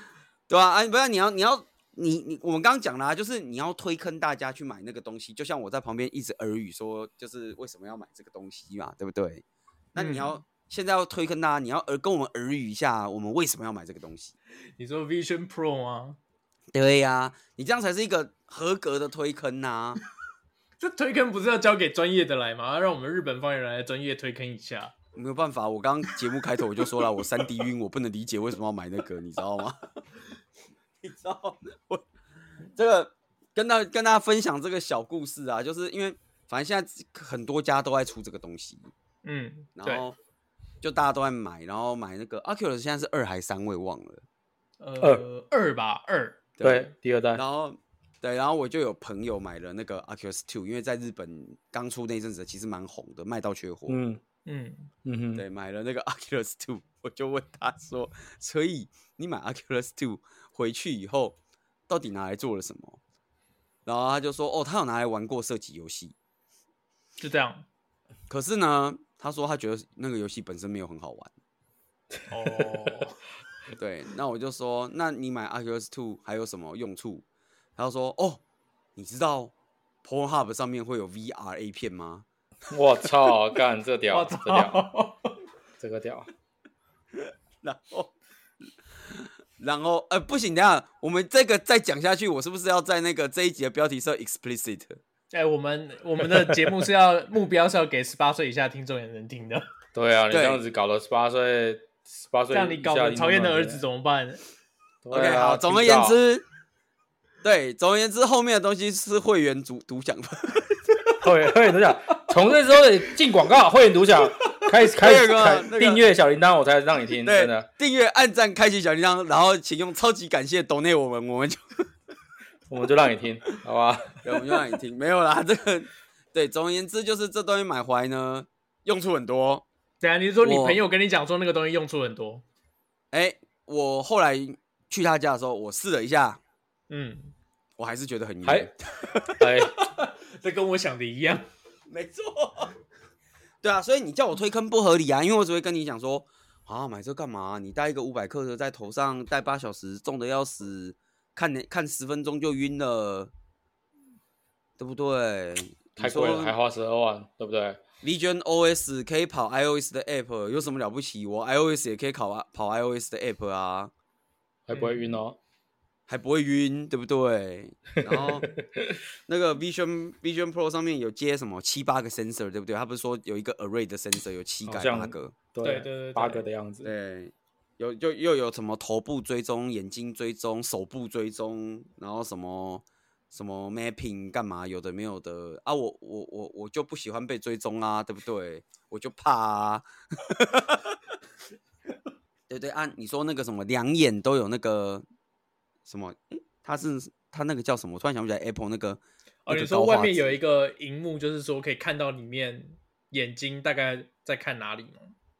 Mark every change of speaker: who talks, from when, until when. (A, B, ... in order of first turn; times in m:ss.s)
0:00.5-0:14.3 A
0:10.0-0:10.3 B
0:14.8-0:16.2 B
0:16.7-0:20.0 A
0:20.8-0:24.9 B
0:25.1-0:29.9 A
0:31.0-0:32.0 A
0:32.7-0:38.8 A
0:39.2-0:40.0 B
0:39.8-0:40.2 A
0:40.8-0:44.2 A
0:44.8-0:46.4 B
0:46.6-0:54.0 A
0:46.6-0:47.4 C
0:53.9-0:54.2 C
0:54.4-0:54.9 B
0:55.0-0:55.4 C
0:55.3-1:01.4 A
1:01.9-1:03.0 A
1:03.8-1:06.1 A
1:07.2-1:07.6 B
1:08.3-1:11.3 A
1:12.3-1:13.2 B
1:12.5-1:13.0 C
1:13.8-1:17.2 A
1:17.8-1:18.4 A
1:19.0-1:19.5 A
1:20.0-1:22.2 A
1:22.7-1:24.9 C
1:24.1-1:25.3 B
1:25.8-1:26.3 C
1:27.2-1:28.1 A
1:29.0-1:35.0 A
1:35.3-1:39.6 B
1:39.9-1:43.8 C
1:40.3-1:40.6 A
1:42.5-1:44.4 B
1:45.0-1:46.2 C
1:45.1-1:46.4 A
1:47.4-1:50.8 A
1:51.2-1:57.7 C
1:54.9-1:56.0 A
1:57.2-2:01.6 A
2:02.7-2:04.3 C
2:04.2-2:09.6 A
2:10.0-2:12.4 B
2:10.4-2:10.8 A
2:13.1-2:16.4 A
2:16.9-2:17.3 B
2:17.8-2:19.2 A
2:19.3-2:19.8 C
2:19.4-2:21.4 B
2:21.9-2:22.7 A
2:23.6-2:33.3 A
2:34.8-2:36.6 A
2:36.0-2:37.8 C
2:38.0-2:43.9 A
2:44.7-2:45.4 C
2:44.7-2:45.1 B
2:46.1-2:48.5 A
2:48.0-2:49.0 C
2:49.3-2:55.3 A
2:54.6-2:56.9 C
2:55.6-2:56.4 B
2:56.8-3:11.0 A
3:12.5-3:15.0 A
3:15.8-3:20.4 A
3:19.4-3:25.1 B